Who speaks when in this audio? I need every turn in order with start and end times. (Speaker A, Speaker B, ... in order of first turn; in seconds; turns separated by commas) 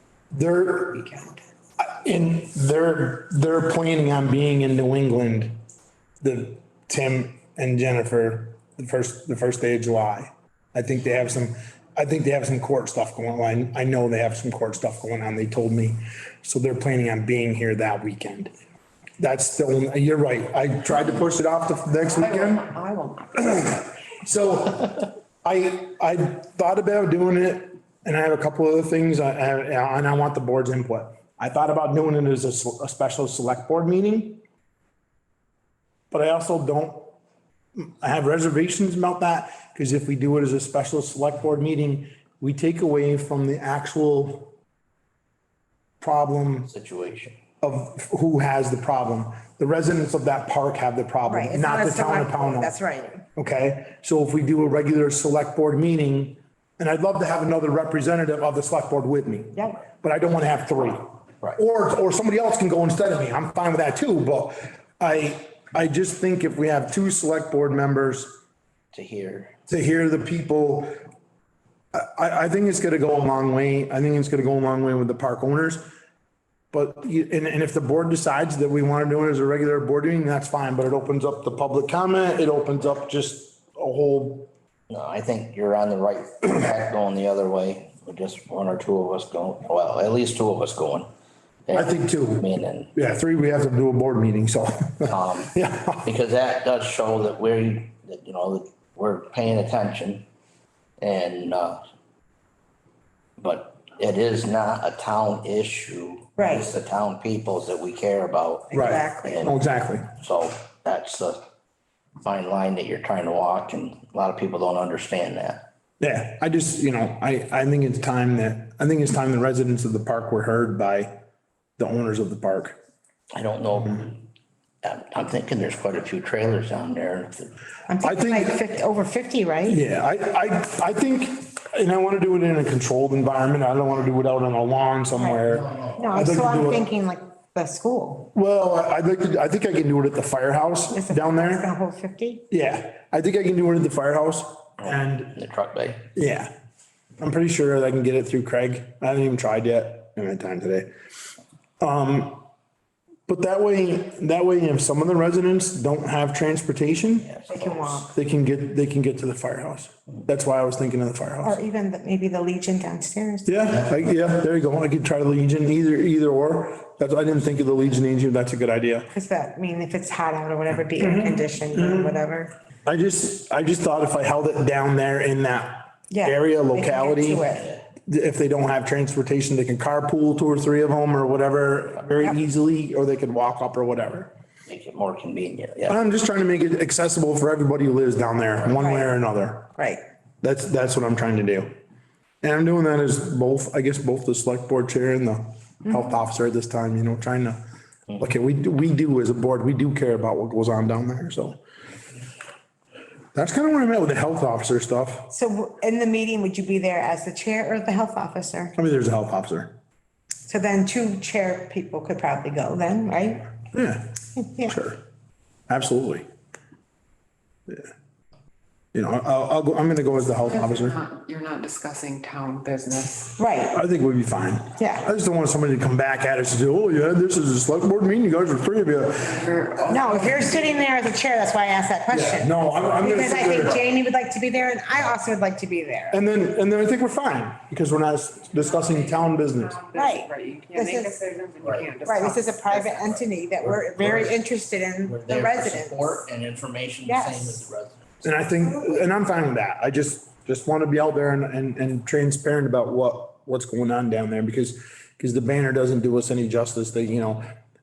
Speaker A: 0.3-1.0, Speaker B: 0.9-1.4, Speaker A: 1.8-5.6, Speaker A: 6.2-18.5, Speaker A: 19.2-22.7, Speaker B: 22.1-23.7, Speaker A: 23.4-34.4, Speaker A: 36.1-37.1, Speaker A: 37.8-44.5, Speaker A: 46.0-46.7, Speaker C: 46.7-47.4, Speaker A: 47.6-52.7, Speaker D: 51.3-53.2, Speaker A: 53.4-68.3, Speaker C: 68.9-69.5, Speaker A: 69.7-70.9, Speaker A: 71.9-75.8, Speaker A: 76.7-84.5, Speaker C: 84.9-91.1, Speaker C: 91.7-92.9, Speaker A: 91.7-96.1, Speaker C: 95.0-95.5, Speaker C: 96.0-100.2, Speaker C: 101.0-101.8, Speaker C: 103.4-109.5, Speaker D: 106.4-106.7, Speaker D: 108.7-109.5, Speaker A: 108.7-110.1, Speaker C: 110.2-111.4, Speaker C: 112.2-115.6, Speaker A: 116.0-121.1, Speaker A: 121.8-122.8, Speaker C: 123.3-124.2, Speaker C: 124.8-127.5, Speaker D: 127.9-129.8, Speaker A: 128.0-128.6, Speaker A: 129.7-136.9, Speaker C: 135.3-136.1, Speaker D: 135.9-138.3, Speaker A: 138.3-141.7, Speaker D: 140.9-142.4, Speaker A: 142.5-145.3, Speaker C: 144.9-146.1, Speaker A: 146.0-146.5, Speaker A: 147.2-150.9, Speaker A: 151.8-152.4, Speaker A: 153.3-157.3, Speaker C: 157.2-158.0, Speaker D: 157.5-158.1, Speaker A: 158.0-161.6, Speaker D: 161.4-163.7, Speaker A: 163.4-169.1, Speaker D: 169.1-172.5, Speaker A: 171.0-172.2, Speaker A: 172.8-177.4, Speaker D: 176.1-177.7, Speaker A: 178.1-184.3, Speaker C: 184.7-186.0, Speaker A: 185.9-189.7, Speaker D: 188.7-189.2, Speaker D: 189.8-190.0, Speaker A: 190.4-191.7, Speaker A: 192.4-197.6, Speaker D: 195.8-196.2, Speaker A: 198.2-201.6, Speaker A: 203.3-205.3, Speaker D: 205.3-208.8, Speaker A: 208.8-209.7, Speaker D: 210.4-213.5, Speaker A: 213.7-215.0, Speaker D: 214.4-214.7, Speaker A: 215.7-216.2, Speaker A: 218.9-221.0, Speaker B: 220.4-223.4, Speaker D: 223.4-223.8, Speaker A: 223.7-229.4, Speaker D: 224.8-225.1, Speaker B: 229.2-230.9, Speaker D: 229.9-236.2, Speaker A: 232.1-233.8, Speaker A: 236.1-239.8, Speaker B: 238.6-242.8, Speaker D: 239.9-241.1, Speaker D: 242.0-246.3, Speaker C: 243.6-244.4, Speaker C: 245.1-248.2, Speaker D: 247.1-247.7, Speaker A: 248.2-257.5, Speaker D: 248.6-249.0